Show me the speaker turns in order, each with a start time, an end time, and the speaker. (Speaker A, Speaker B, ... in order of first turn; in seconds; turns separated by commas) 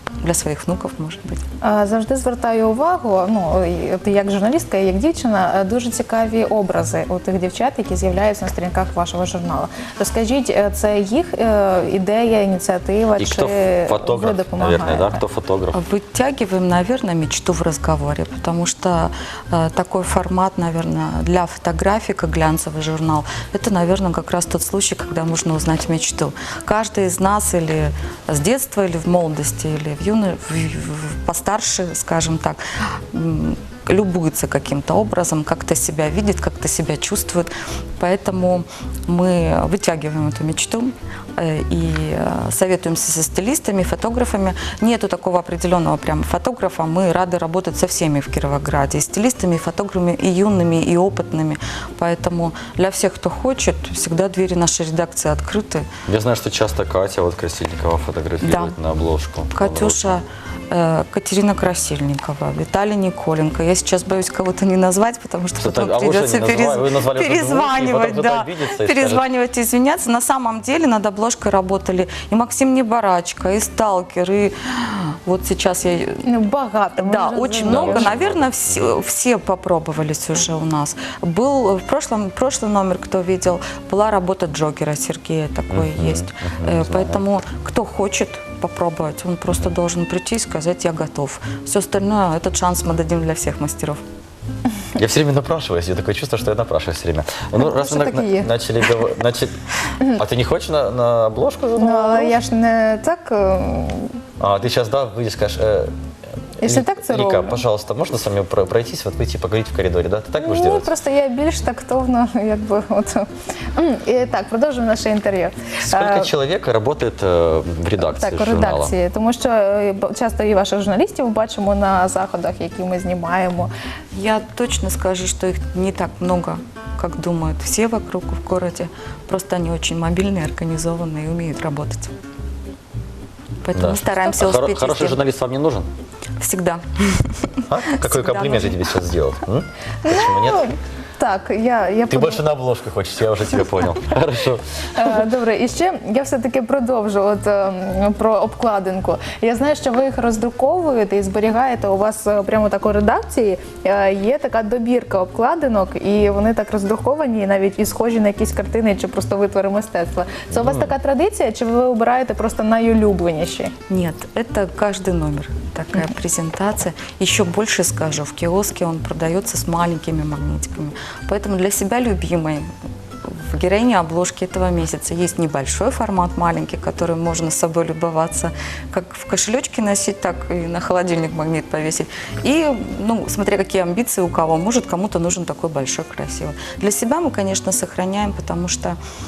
Speaker A: 0.2-1.4, Speaker B: 1.6-15.2, Speaker C: 13.2-15.8, Speaker A: 15.7-55.9, Speaker C: 56.1-60.2, Speaker A: 58.4-58.8, Speaker A: 59.5-76.2, Speaker C: 65.6-69.2, Speaker B: 76.2-78.1, Speaker A: 77.0-94.0, Speaker C: 77.7-78.8, Speaker C: 85.7-87.2, Speaker C: 95.0-102.4, Speaker B: 97.5-98.5, Speaker B: 101.8-104.2, Speaker C: 104.4-105.9, Speaker B: 106.6-107.6, Speaker C: 106.6-110.9, Speaker B: 110.4-116.3, Speaker C: 115.8-118.9, Speaker B: 118.0-123.7, Speaker A: 124.1-132.1, Speaker A: 133.6-135.2, Speaker C: 133.7-135.9, Speaker A: 136.4-138.8, Speaker C: 137.7-140.7, Speaker B: 140.1-142.4, Speaker C: 142.1-144.6, Speaker B: 145.0-163.7, Speaker C: 160.6-160.9, Speaker A: 163.9-172.7, Speaker A: 173.2-189.0